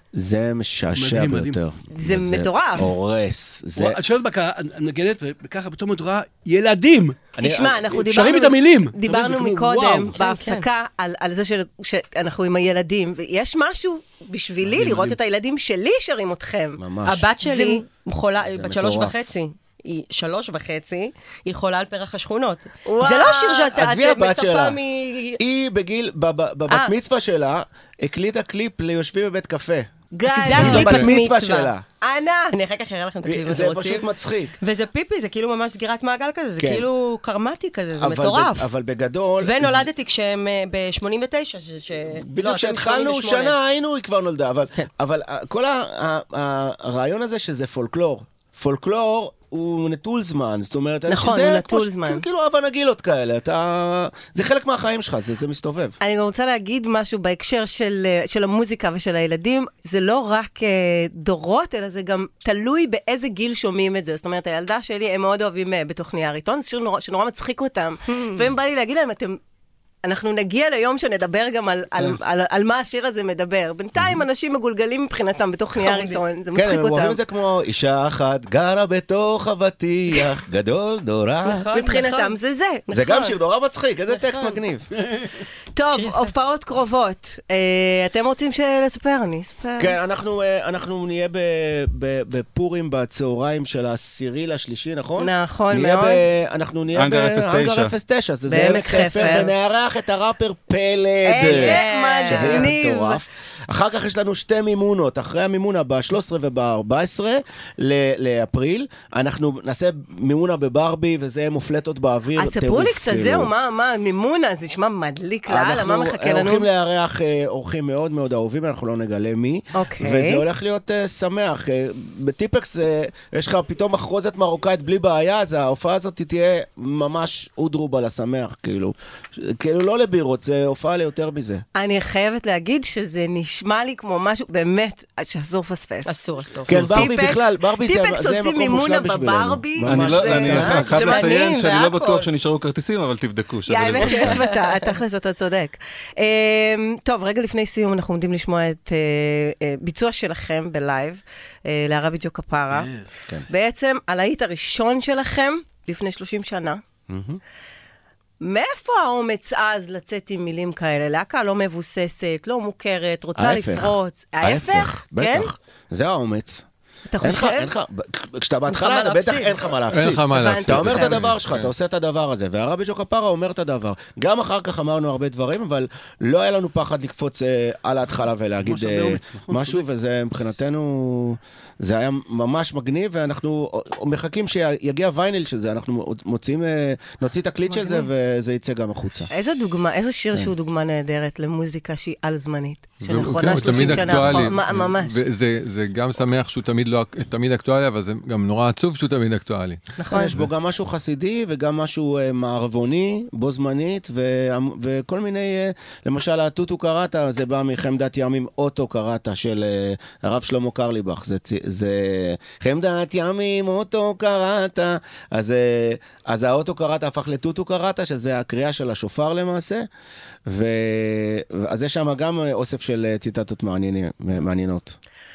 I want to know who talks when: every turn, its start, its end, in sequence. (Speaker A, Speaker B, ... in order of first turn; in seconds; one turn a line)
Speaker A: 0.1-4.0
Speaker B: 0.9-1.6
Speaker C: 1.9-2.9
Speaker B: 3.8-7.3
Speaker A: 7.4-8.3
Speaker C: 7.4-16.8
Speaker B: 8.0-10.2
Speaker D: 10.2-10.7
Speaker B: 14.6-15.2
Speaker A: 16.8-17.3
Speaker D: 17.1-25.4
Speaker C: 17.4-17.8
Speaker A: 18.4-19.2
Speaker C: 22.9-23.7
Speaker A: 23.7-24.8
Speaker A: 25.4-29.9
Speaker C: 30.1-31.1
Speaker D: 30.3-31.7
Speaker A: 30.5-31.9
Speaker E: 30.6-31.1
Speaker C: 32.0-32.6
Speaker D: 32.5-34.1
Speaker A: 33.2-34.6
Speaker D: 34.6-38.7
Speaker A: 36.6-36.9
Speaker A: 38.0-39.9
Speaker D: 39.4-43.6
Speaker A: 42.2-56.0
Speaker C: 51.1-52.2
Speaker C: 56.0-69.4
Speaker D: 68.1-68.5
Speaker C: 70.0-77.2
Speaker D: 75.8-76.2
Speaker A: 76.5-81.7
Speaker D: 81.4-82.4
Speaker C: 81.7-82.8
Speaker D: 82.9-83.3
Speaker A: 82.9-84.9
Speaker D: 84.1-84.6
Speaker B: 85.1-85.4
Speaker C: 85.8-90.0
Speaker D: 85.9-86.3
Speaker A: 89.8-113.5
Speaker C: 95.2-96.2
Speaker F: 97.0-97.9
Speaker C: 98.5-99.5
Speaker C: 101.2-103.2
Speaker D: 101.4-102.7
Speaker C: 112.4-116.7
Speaker A: 115.5-131.6
Speaker C: 119.8-120.4
Speaker C: 131.8-136.1
Speaker D: 136.1-137.1
Speaker C: 136.7-141.3
Speaker A: 136.7-141.2
Speaker F: 139.8-144.4
Speaker D: 140.5-142.3
Speaker C: 143.7-152.9
Speaker D: 144.0-144.9
Speaker B: 152.7-153.2
Speaker C: 153.5-156.8
Speaker A: 157.1-157.4
Speaker C: 158.4-165.5
Speaker A: 163.4-166.7
Speaker C: 167.1-167.7
Speaker A: 167.2-189.3
Speaker D: 168.7-169.7
Speaker E: 169.9-171.7
Speaker C: 170.3-171.3
Speaker B: 178.6-179.8
Speaker C: 187.7-188.1
Speaker C: 189.3-195.2
Speaker E: 193.0-199.8
Speaker A: 193.6-194.4
Speaker C: 200.0-200.4
Speaker A: 200.1-219.9
Speaker A: 220.5-225.0